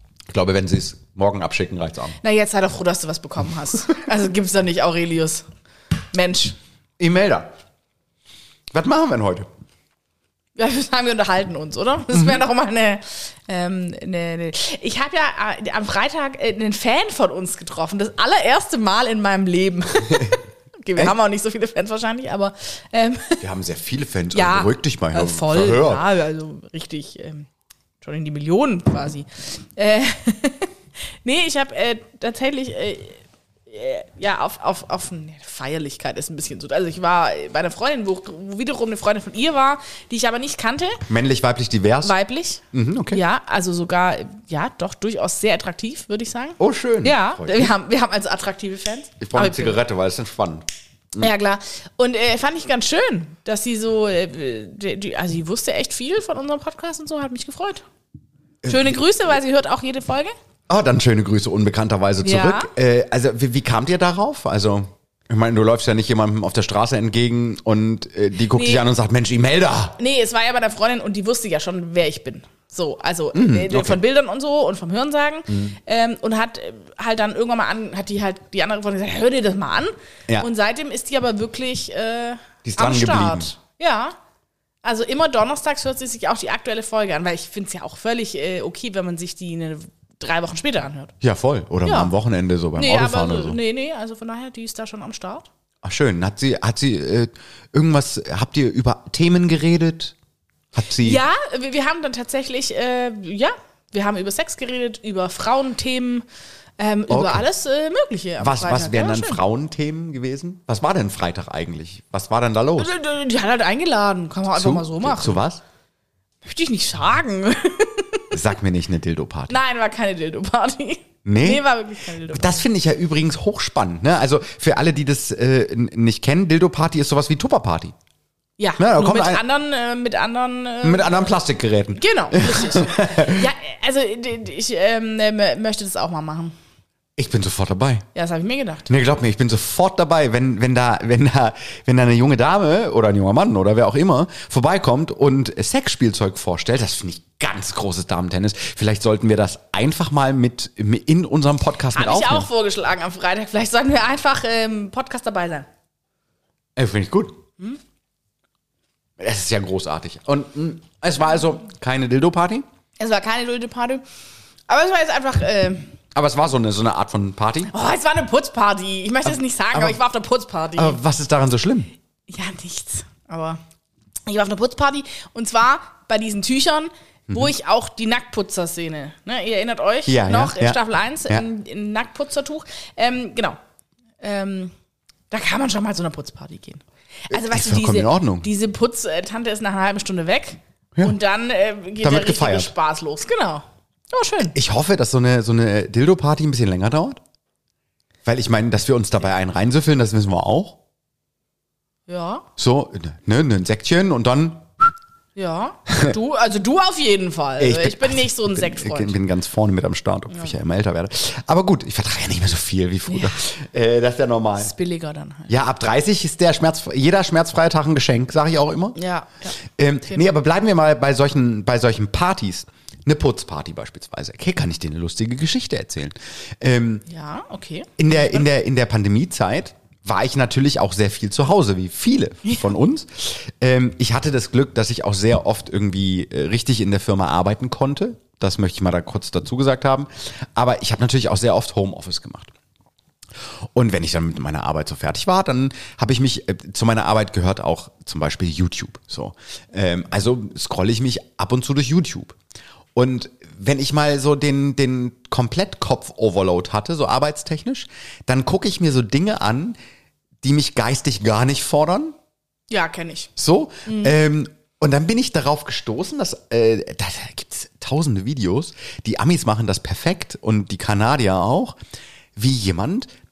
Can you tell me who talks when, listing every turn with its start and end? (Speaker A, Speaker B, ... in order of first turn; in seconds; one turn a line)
Speaker A: 0.3-2.2
Speaker B: 2.2-5.5
Speaker B: 6.1-6.5
Speaker A: 7.0-7.5
Speaker A: 8.7-9.5
Speaker B: 10.6-23.4
Speaker A: 20.1-20.4
Speaker A: 23.4-26.0
Speaker B: 24.3-27.5
Speaker B: 28.0-30.7
Speaker B: 31.2-41.0
Speaker A: 41.1-42.1
Speaker B: 42.0-49.8
Speaker A: 42.7-43.2
Speaker A: 46.6-47.7
Speaker A: 49.2-51.3
Speaker B: 51.2-57.8
Speaker A: 58.6-59.0
Speaker B: 58.7-60.3
Speaker A: 60.7-69.9
Speaker B: 62.2-62.7
Speaker B: 68.5-68.8
Speaker B: 70.0-84.2
Speaker A: 73.3-74.0
Speaker A: 75.5-75.8
Speaker A: 82.6-83.5
Speaker B: 84.8-91.1
Speaker A: 91.2-93.6
Speaker B: 91.8-92.1
Speaker B: 92.8-95.5
Speaker A: 95.8-100.1
Speaker A: 100.7-101.2
Speaker B: 101.0-106.2
Speaker B: 106.8-109.4
Speaker A: 107.1-107.4
Speaker A: 108.4-112.9
Speaker B: 112.8-115.4
Speaker A: 114.5-115.6
Speaker B: 116.4-118.3
Speaker A: 118.3-119.5
Speaker B: 119.5-122.6
Speaker A: 121.2-121.6
Speaker A: 122.3-127.9
Speaker B: 128.6-131.2
Speaker A: 128.8-129.4
Speaker A: 130.8-133.5
Speaker B: 131.9-136.5
Speaker A: 137.2-138.1
Speaker B: 138.1-138.9
Speaker A: 138.9-152.5
Speaker B: 151.9-155.7
Speaker A: 156.8-157.4
Speaker A: 159.2-162.6
Speaker B: 163.0-164.0
Speaker B: 164.7-165.9
Speaker A: 166.1-167.7
Speaker B: 167.7-171.0
Speaker A: 169.2-170.0
Speaker A: 170.8-171.9
Speaker B: 172.3-173.6
Speaker B: 174.3-183.6
Speaker A: 180.1-181.4
Speaker B: 184.2-184.7
Speaker B: 185.3-194.5
Speaker A: 187.3-188.5
Speaker A: 192.0-192.7
Speaker A: 194.5-197.2
Speaker A: 198.2-200.8
Speaker B: 202.1-202.4
Speaker A: 202.6-204.9
Speaker B: 205.3-209.2
Speaker A: 205.9-206.1
Speaker A: 207.6-214.7
Speaker B: 213.1-213.4
Speaker B: 214.6-215.5
Speaker A: 215.5-219.0
Speaker B: 218.9-219.6
Speaker A: 219.6-227.0
Speaker B: 227.1-228.4
Speaker A: 228.0-242.5
Speaker A: 243.7-252.3
Speaker A: 252.9-259.8
Speaker A: 260.4-262.1
Speaker B: 262.7-263.3
Speaker A: 263.4-271.8
Speaker B: 263.9-264.1
Speaker A: 272.4-273.1